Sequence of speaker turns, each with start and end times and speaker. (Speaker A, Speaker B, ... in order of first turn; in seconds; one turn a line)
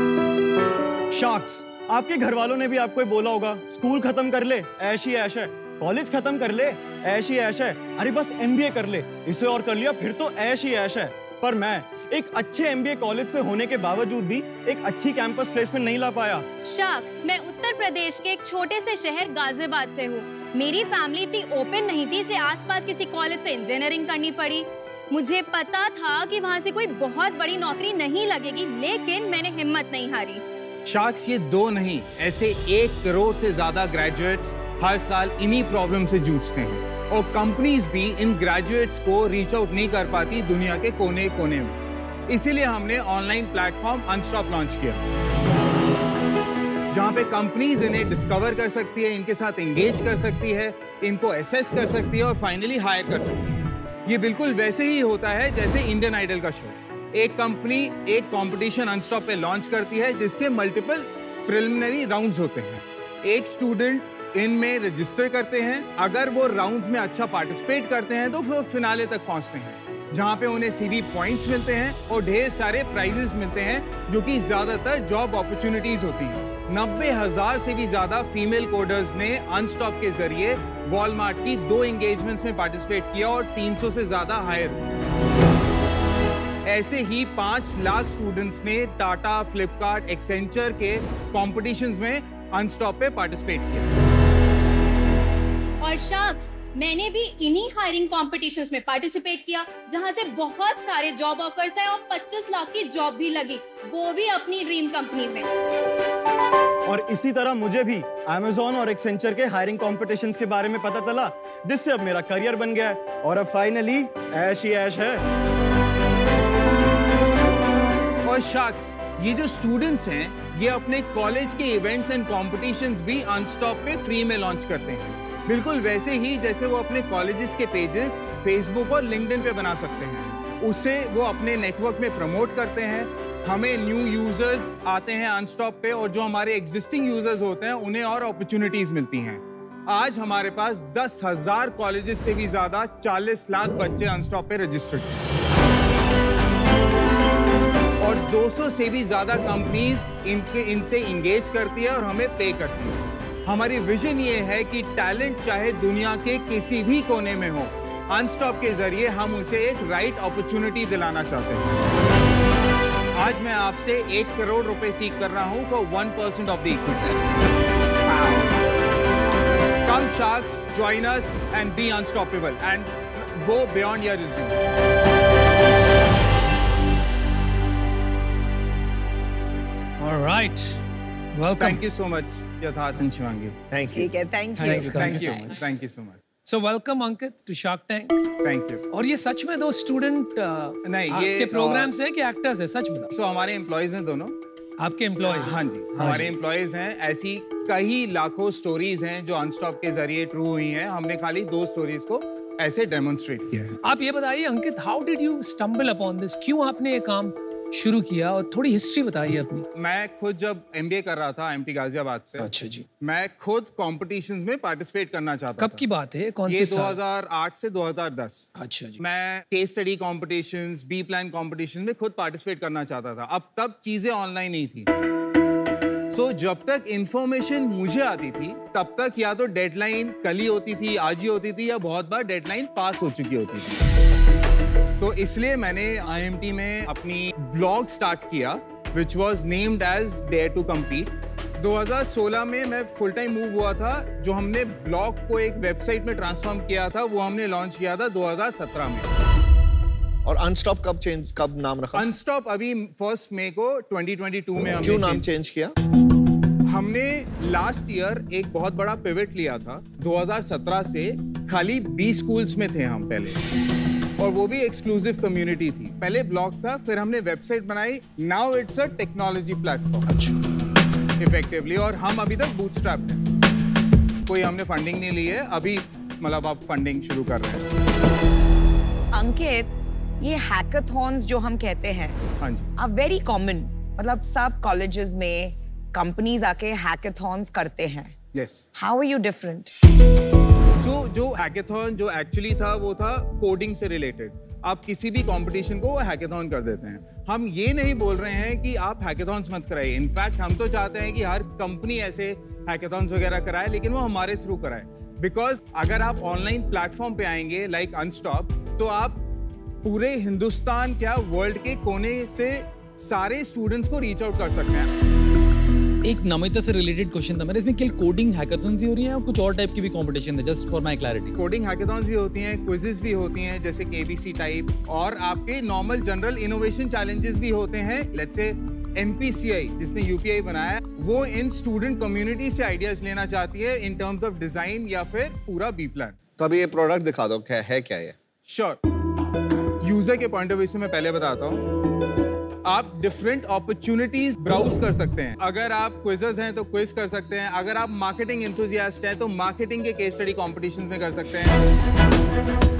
Speaker A: 1.1-16.4
Speaker B: 16.6-30.4
Speaker C: 30.8-41.8
Speaker C: 42.3-45.0
Speaker C: 46.9-84.8
Speaker C: 86.7-93.8
Speaker B: 95.8-105.5
Speaker A: 106.9-115.2
Speaker C: 118.2-145.2
Speaker C: 148.0-161.7
Speaker C: 163.1-167.1
Speaker C: 169.8-174.6
Speaker D: 180.0-180.8
Speaker D: 181.3-181.8
Speaker C: 181.6-183.6
Speaker E: 183.7-184.1
Speaker F: 183.9-185.5
Speaker D: 184.6-185.5
Speaker C: 184.7-186.2
Speaker D: 186.4-188.2
Speaker C: 188.4-188.8
Speaker D: 188.9-193.1
Speaker C: 190.8-191.9
Speaker C: 193.1-194.3
Speaker D: 194.8-196.3
Speaker C: 195.3-203.8
Speaker D: 203.8-209.7
Speaker C: 209.8-212.5
Speaker D: 212.4-212.8
Speaker C: 213.0-215.8
Speaker D: 215.6-217.0
Speaker C: 216.5-218.5
Speaker D: 218.6-219.0
Speaker C: 219.0-224.9
Speaker C: 226.1-233.8
Speaker C: 235.0-249.1
Speaker E: 250.2-252.1
Speaker C: 251.9-255.3
Speaker E: 254.8-255.7
Speaker C: 256.7-263.4
Speaker C: 264.2-270.0
Speaker D: 270.1-270.4
Speaker C: 271.2-273.2
Speaker C: 274.3-277.6
Speaker F: 279.1-279.7
Speaker F: 280.2-282.2
Speaker C: 282.4-282.7
Speaker F: 282.8-288.1
Speaker C: 288.3-288.7
Speaker F: 288.7-289.7
Speaker C: 290.8-309.2
Speaker C: 309.8-314.9
Speaker G: 316.0-321.4
Speaker C: 321.4-336.1
Speaker E: 336.4-338.1
Speaker C: 338.5-338.8
Speaker C: 339.8-341.6
Speaker C: 342.6-351.6